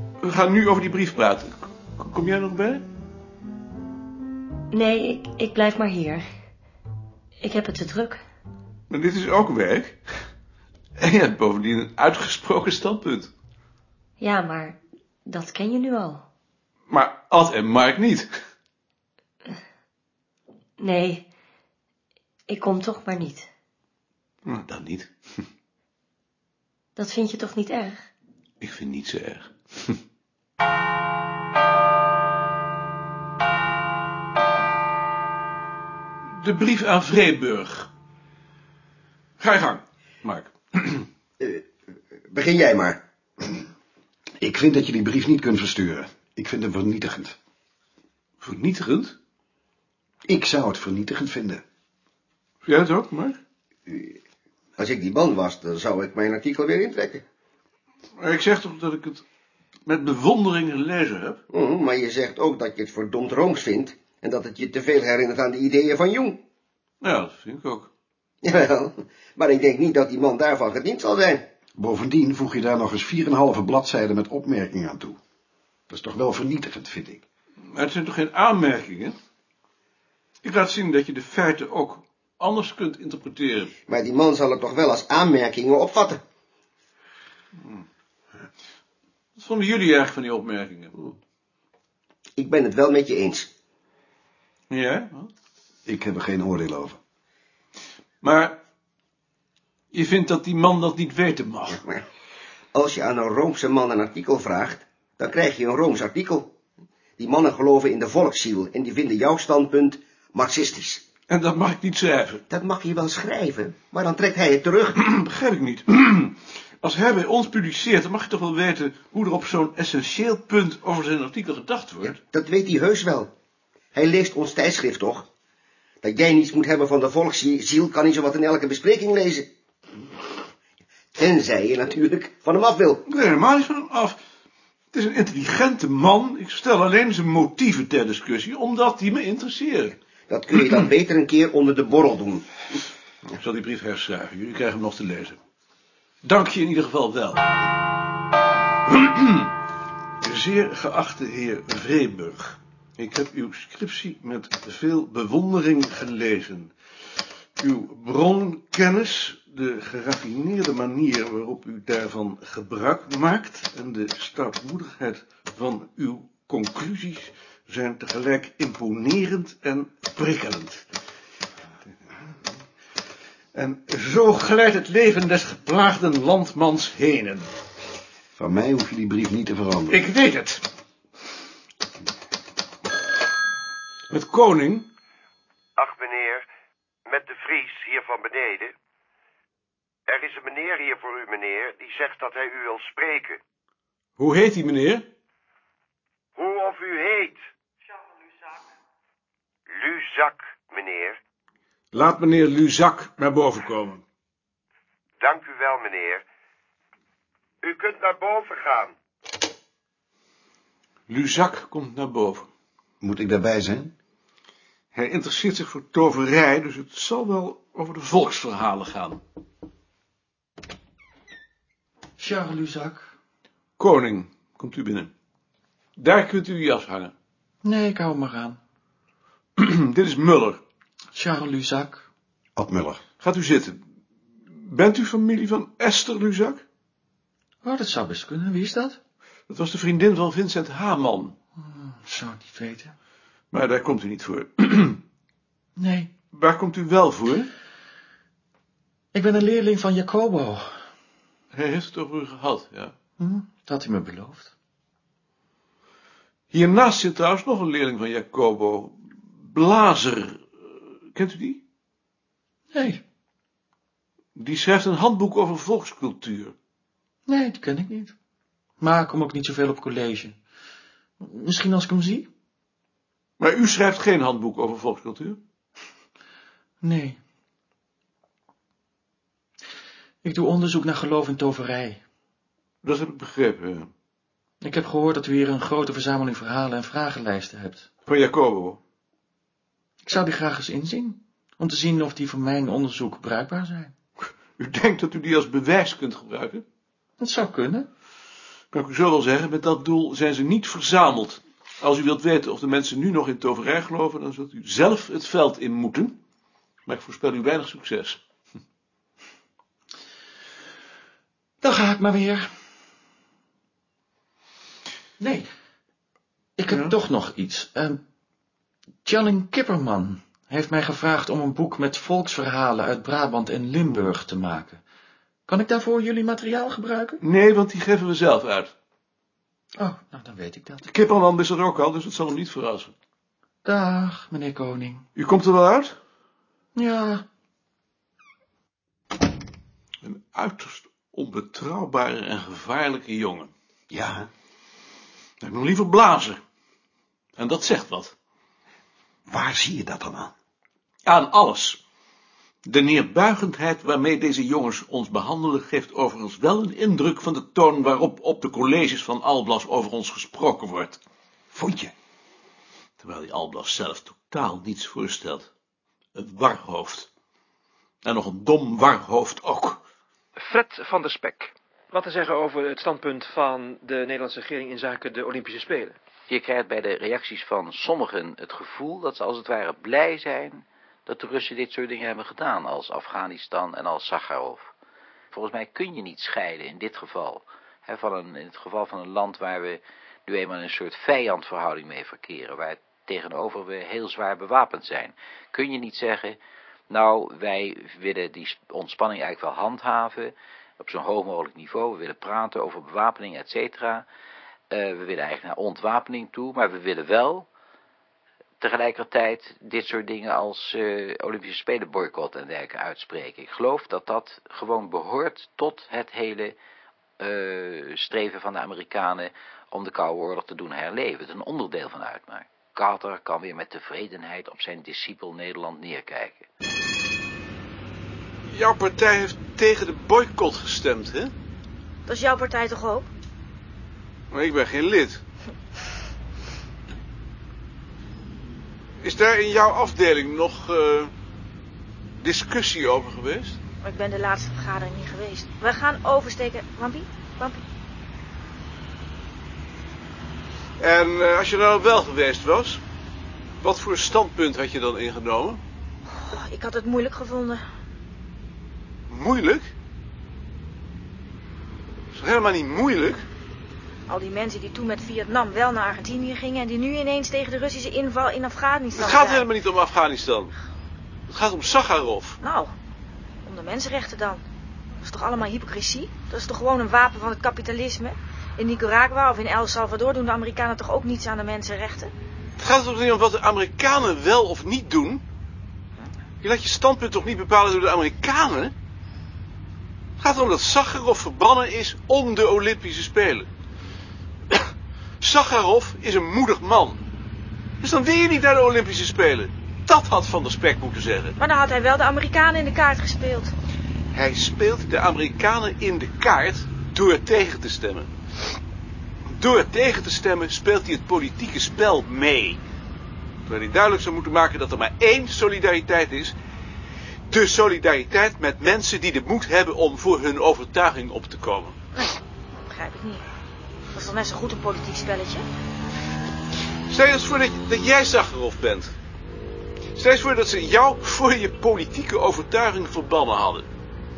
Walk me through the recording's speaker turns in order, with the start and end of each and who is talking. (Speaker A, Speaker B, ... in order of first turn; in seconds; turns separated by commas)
Speaker A: 0.2-2.9, Speaker B: 4.7-6.3, Speaker B: 7.4-8.2, Speaker A: 8.9-10.0, Speaker A: 11.0-13.3, Speaker B: 14.2-16.2, Speaker A: 16.9-18.3, Speaker B: 20.8-21.2, Speaker B: 22.5-23.5, Speaker A: 24.4-25.1, Speaker B: 27.0-28.1, Speaker A: 28.6-30.0, Speaker A: 36.4-37.9, Speaker A: 39.4-41.1, Speaker C: 41.4-41.6, Speaker C: 42.2-43.6, Speaker D: 44.4-47.4, Speaker A: 48.4-49.2, Speaker D: 50.3-51.6, Speaker A: 52.6-53.4, Speaker C: 53.9-54.2, Speaker C: 54.8-57.2, Speaker A: 58.2-59.2, Speaker A: 59.9-61.4, Speaker C: 61.5-66.4, Speaker A: 67.0-67.9, Speaker C: 68.4-71.5, Speaker D: 71.8-75.2, Speaker D: 75.9-77.2, Speaker A: 77.7-79.2, Speaker A: 80.4-83.7, Speaker C: 83.9-86.2, Speaker A: 89.4-91.1, Speaker C: 92.4-93.5, Speaker A: 94.7-95.3, Speaker D: 95.9-97.0, Speaker A: 98.2-98.6, Speaker A: 99.9-101.8, Speaker C: 101.7-102.0, Speaker C: 102.7-106.5, Speaker C: 107.2-111.0, Speaker A: 111.3-112.4, Speaker C: 112.5-115.0, Speaker A: 115.0-122.2, Speaker C: 122.0-123.3, Speaker C: 123.9-125.3, Speaker C: 126.0-129.5, Speaker C: 131.2-133.0, Speaker A: 133.1-134.2, Speaker A: 134.9-139.9, Speaker C: 140.3-142.6, Speaker A: 143.3-145.4, Speaker A: 146.2-147.4, Speaker A: 148.9-149.5, Speaker A: 150.2-156.7, Speaker A: 157.6-170.8, Speaker A: 173.5-177.5, Speaker D: 178.4-180.0, Speaker A: 179.9-180.6, Speaker A: 184.1-184.9, Speaker C: 185.8-186.4, Speaker E: 187.2-188.1, Speaker C: 188.1-188.7, Speaker C: 190.3-192.5, Speaker E: 191.7-192.8, Speaker A: 194.2-195.1, Speaker C: 200.2-201.2, Speaker A: 201.9-204.0, Speaker C: 205.2-206.2, Speaker C: 207.6-208.9, Speaker A: 211.1-212.5, Speaker D: 213.0-213.9, Speaker A: 214.9-219.2, Speaker F: 222.2-223.1, Speaker A: 223.8-225.1, Speaker A: 226.0-227.1, Speaker F: 227.6-228.6, Speaker A: 229.6-230.6, Speaker F: 231.1-232.1, Speaker D: 232.6-233.0, Speaker A: 233.2-233.8, Speaker A: 234.5-236.6, Speaker F: 237.6-239.0, Speaker A: 239.5-241.3, Speaker F: 241.7-242.9, Speaker A: 243.5-245.0, Speaker F: 245.8-246.1, Speaker A: 246.3-247.5, Speaker F: 249.1-250.8, Speaker A: 251.5-252.9, Speaker F: 253.2-254.5, Speaker A: 256.5-260.4, Speaker A: 261.1-261.6, Speaker F: 262.7-263.0, Speaker A: 264.4-266.6, Speaker F: 267.3-268.1, Speaker F: 268.8-270.4, Speaker F: 271.2-272.3, Speaker A: 273.4-275.4, Speaker F: 276.8-277.2, Speaker F: 280.2-282.0, Speaker A: 282.8-283.9, Speaker F: 284.6-287.9, Speaker A: 288.1-288.8, Speaker F: 290.0-293.9, Speaker A: 294.6-296.6, Speaker F: 297.2-297.9, Speaker A: 298.7-306.2, Speaker A: 306.9-308.2, Speaker F: 311.6-312.5, Speaker F: 315.2-315.5, Speaker F: 316.6-318.0, Speaker F: 319.1-324.8, Speaker F: 325.5-327.2, Speaker A: 327.2-328.7, Speaker F: 329.8-330.8, Speaker A: 330.9-332.9, Speaker F: 333.6-335.1, Speaker A: 335.2-336.0, Speaker F: 336.8-337.2, Speaker A: 340.0-343.5, Speaker D: 343.9-344.3, Speaker A: 345.4-346.4, Speaker A: 347.4-348.1, Speaker D: 349.3-350.3, Speaker A: 351.1-351.8, Speaker A: 352.6-361.0, Speaker D: 361.5-361.9, Speaker A: 363.0-365.5, Speaker A: 366.2-367.1, Speaker A: 368.0-369.8, Speaker G: 370.4-376.0, Speaker H: 376.3-384.7, Speaker H: 385.3-396.4, Speaker H: 396.9-404.1, Speaker H: 404.7-407.5, Speaker H: 408.6-416.6, Speaker H: 417.2-426.5, Speaker A: 428.5-431.3, Speaker I: 432.1-433.1, Speaker A: 434.3-435.2, Speaker A: 439.0-441.1, Speaker A: 442.2-443.6, Speaker I: 443.8-447.6, Speaker A: 450.8-452.8, Speaker A: 453.6-455.6, Speaker I: 456.1-457.6, Speaker A: 459.1-459.7, Speaker A: 462.1-463.3, Speaker I: 464.1-469.5, Speaker A: 468.9-470.5, Speaker A: 471.3-472.4, Speaker I: 472.4-472.7, Speaker I: 473.4-474.4, Speaker I: 475.0-482.1, Speaker A: 482.6-485.2, Speaker A: 486.4-488.8, Speaker A: 490.2-493.5, Speaker A: 495.2-497.0, Speaker A: 497.8-501.4, Speaker I: 501.4-503.5, Speaker A: 504.1-508.1, Speaker A: 509.3-512.6, Speaker A: 513.5-516.4, Speaker A: 517.3-521.8, Speaker I: 522.0-523.2, Speaker I: 523.9-525.5, Speaker A: 526.9-529.0, Speaker A: 530.0-533.7